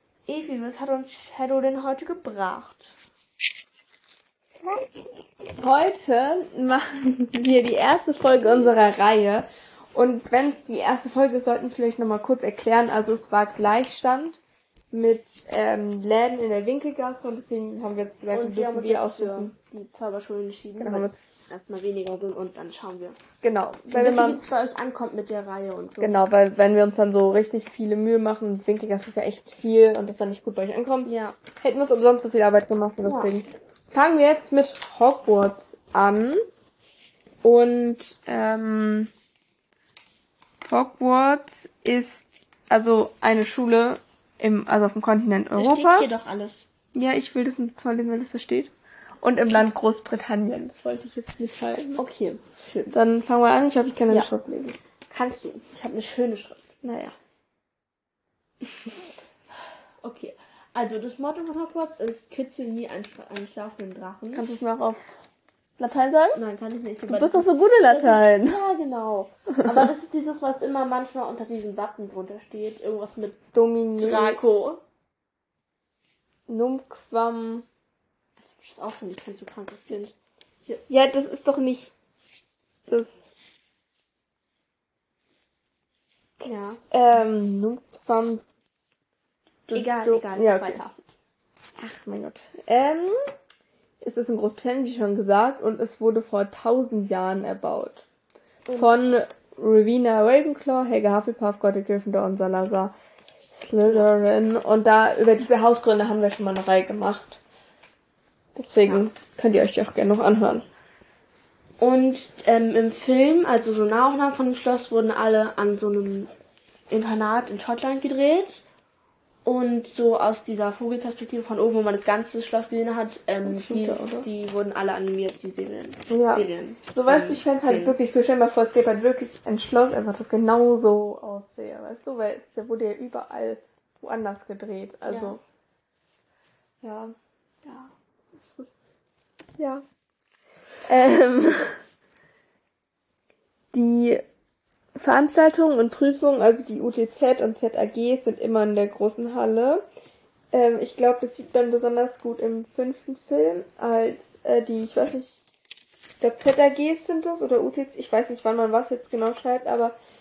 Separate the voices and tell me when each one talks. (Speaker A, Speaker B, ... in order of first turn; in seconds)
Speaker A: 0.3-3.0, 8.4-8.8, 18.3-23.2, 23.9-26.3, 31.1-31.4, 33.0-33.3, 45.5-46.7, 52.0-52.9, 55.1-56.7, 60.0-64.6, 66.3-73.4, 74.0-74.8, 78.4-80.8, 86.4-86.8, 89.7-91.0, 98.7-98.9, 103.8-104.1, 111.8-116.3, 116.9-118.6, 119.5-128.0, 135.1-135.4
Speaker B: 5.6-14.4, 14.9-19.5, 20.8-21.2, 23.4-24.4, 26.0-36.4, 37.4-39.1, 40.6-46.1, 46.9-48.7, 49.2-52.0, 52.9-54.8, 56.8-57.1, 64.3-65.2, 65.8-66.4, 67.1-68.6, 73.5-74.4, 76.5-77.7, 80.9-81.9, 82.9-83.4, 86.9-88.4, 89.7-90.8, 91.8-93.2, 94.0-98.0, 98.8-102.9, 103.5-107.4, 108.5-110.7, 123.5-124.3, 126.1-135.4, 136.8-137.2, 137.7-138.9, 139.6-139.8, 140.9-141.8, 143.7-144.2, 145.0-149.8, 150.5-155.4, 156.2-159.9